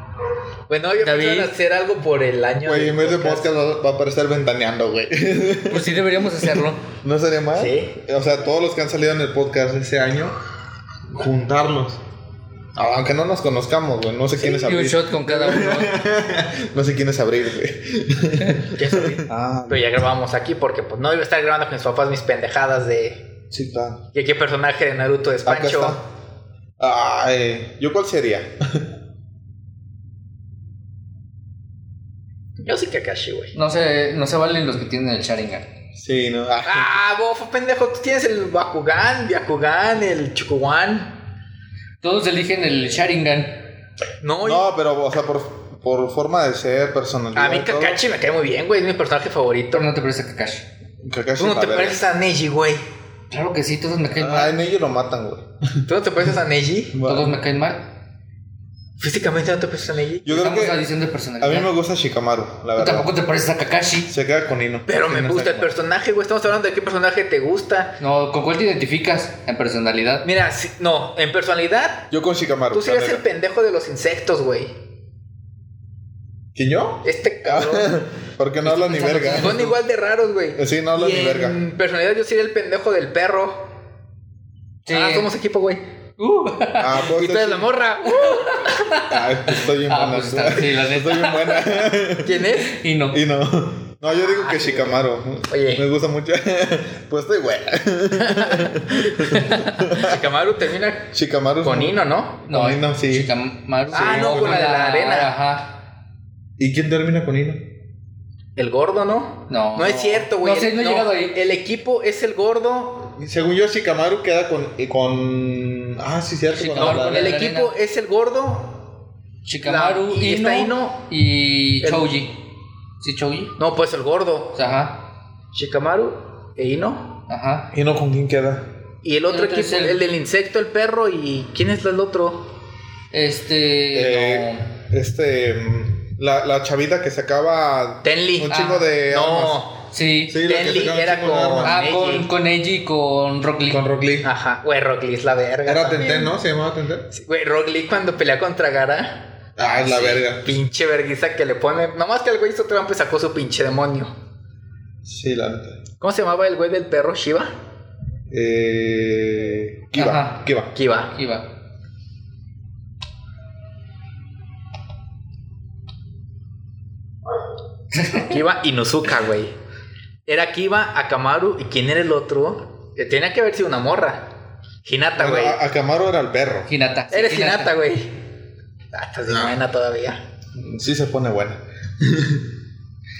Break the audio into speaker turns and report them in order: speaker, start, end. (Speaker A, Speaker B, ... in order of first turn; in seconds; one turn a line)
Speaker A: 0.7-3.5
Speaker B: 1.0-1.5
Speaker C: 2.6-10.3
Speaker B: 5.7-6.8
Speaker A: 7.5-8.0
Speaker C: 11.1-12.0
Speaker C: 12.7-19.9
Speaker B: 14.4-16.0
Speaker A: 18.7-23.2
Speaker C: 23.5-24.0
Speaker A: 24.1-26.0
Speaker C: 25.4-26.0
Speaker C: 26.8-28.9
Speaker A: 32.6-33.5
Speaker B: 33.5-35.7
Speaker C: 35.9-37.0
Speaker A: 36.6-41.2
Speaker B: 42.0-43.7
Speaker A: 44.2-44.7
Speaker C: 44.4-48.0
Speaker A: 47.3-49.9
Speaker B: 49.7-50.6
Speaker C: 51.0-52.0
Speaker A: 51.4-52.8
Speaker B: 53.3-54.5
Speaker C: 54.2-55.8
Speaker A: 55.9-57.0
Speaker C: 56.9-57.3
Speaker B: 57.0-57.9
Speaker A: 59.0-60.4
Speaker C: 60.2-60.9
Speaker B: 60.3-61.7
Speaker C: 61.4-63.1
Speaker B: 62.8-64.1
Speaker C: 64.1-65.7
Speaker A: 64.9-68.0
Speaker B: 68.0-70.2
Speaker A: 70.2-72.1
Speaker C: 72.1-73.2
Speaker A: 72.7-74.7
Speaker C: 76.5-79.6
Speaker A: 77.0-77.9
Speaker B: 78.6-79.8
Speaker A: 79.2-83.7
Speaker C: 80.5-81.6
Speaker B: 84.8-85.3
Speaker A: 84.9-85.8
Speaker B: 86.2-87.0
Speaker C: 86.8-87.7
Speaker A: 87.0-89.0
Speaker B: 88.1-92.0
Speaker C: 89.0-92.4
Speaker A: 92.2-92.8
Speaker B: 92.6-93.2
Speaker C: 93.1-100.2
Speaker A: 94.1-95.0
Speaker A: 95.5-95.8
Speaker A: 98.2-102.5
Speaker B: 99.3-99.7
Speaker C: 101.1-102.0
Speaker B: 102.5-105.7
Speaker C: 102.5-103.3
Speaker C: 103.9-104.6
Speaker A: 103.9-105.3
Speaker C: 106.6-107.7
Speaker A: 108.5-113.1
Speaker B: 109.5-111.4
Speaker C: 113.2-117.4
Speaker B: 116.5-117.7
Speaker A: 116.8-118.8
Speaker B: 119.4-122.4
Speaker A: 119.6-121.0
Speaker A: 121.8-122.1
Speaker B: 123.0-123.5
Speaker A: 123.6-124.6
Speaker B: 124.5-125.0
Speaker A: 125.5-127.2
Speaker B: 127.3-127.7
Speaker C: 127.7-128.7
Speaker A: 129.0-132.5
Speaker B: 129.3-130.0
Speaker B: 133.1-134.7
Speaker C: 133.9-139.6
Speaker A: 138.0-139.9
Speaker B: 138.5-138.9
Speaker B: 139.9-140.4
Speaker C: 140.3-141.8
Speaker A: 140.4-142.3
Speaker B: 141.6-143.8
Speaker C: 143.7-144.3
Speaker A: 144.2-146.3
Speaker C: 145.7-147.1
Speaker A: 147.1-154.1
Speaker C: 149.6-150.6
Speaker C: 155.0-155.8
Speaker A: 156.0-157.5
Speaker C: 158.3-160.7
Speaker B: 159.9-160.5
Speaker A: 160.7-161.1
Speaker B: 161.1-161.5
Speaker B: 168.0-168.3
Speaker A: 168.1-169.5
Speaker A: 170.2-174.3
Speaker A: 174.8-175.6
Speaker C: 175.2-176.7
Speaker B: 176.7-177.8
Speaker A: 177.1-178.2
Speaker A: 178.9-180.2
Speaker C: 179.3-179.5
Speaker C: 180.5-182.4